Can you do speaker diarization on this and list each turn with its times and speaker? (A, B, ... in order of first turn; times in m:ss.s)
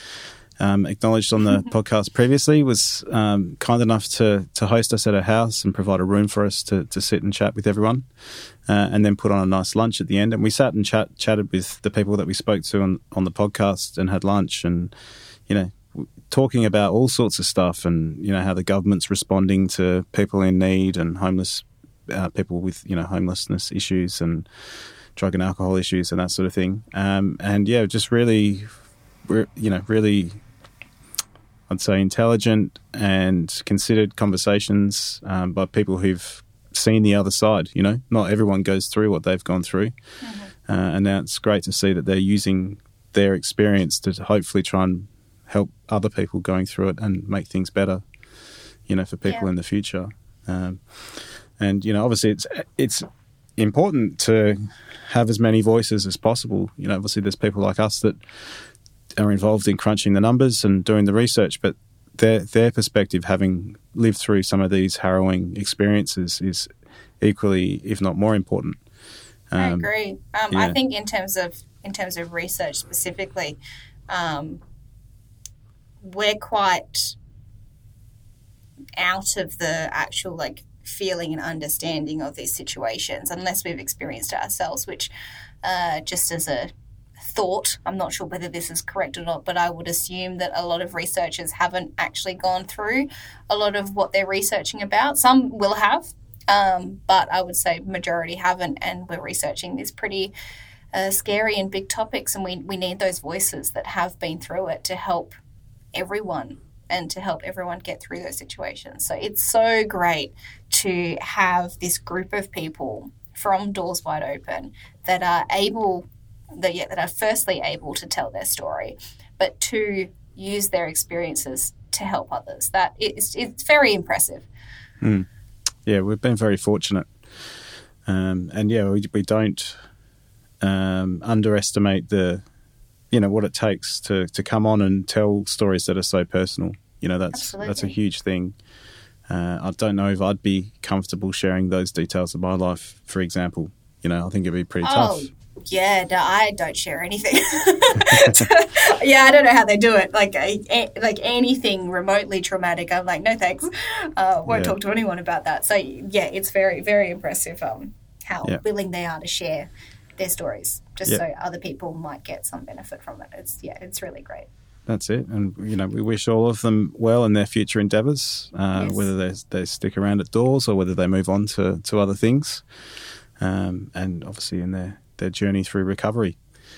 0:00.6-0:08.1 A
0:08.7-0:14.9 A
0:15.5-0:24.5 A
0:25.2-0:28.7 A
0:29.3-0:30.4 A
0:31.7-0:39.9 A
0:40.2-0:40.5 B
0:40.7-0:48.0 A
0:48.9-0:58.2 A
0:59.2-1:08.8 A
1:09.5-1:09.9 A
1:09.6-1:13.6 B
1:10.5-1:10.8 A
1:14.1-1:14.6 B
1:16.0-1:17.2 B
1:19.0-1:25.1 B
1:25.6-1:26.7 B
1:27.2-1:40.3 B
1:40.9-1:45.4 B
1:45.9-2:04.5 B
2:05.0-2:05.3 A
2:05.9-2:07.1 A
2:08.1-2:09.8 A
2:10.6-2:12.4 A
2:13.1-2:18.6 A
2:17.3-2:18.0 B
2:19.3-2:25.3 A
2:24.8-2:44.5 B
2:28.0-2:28.5 A
2:34.5-2:34.8 A
2:44.9-2:52.6 A
2:48.8-2:49.1 B
2:53.4-2:56.4 A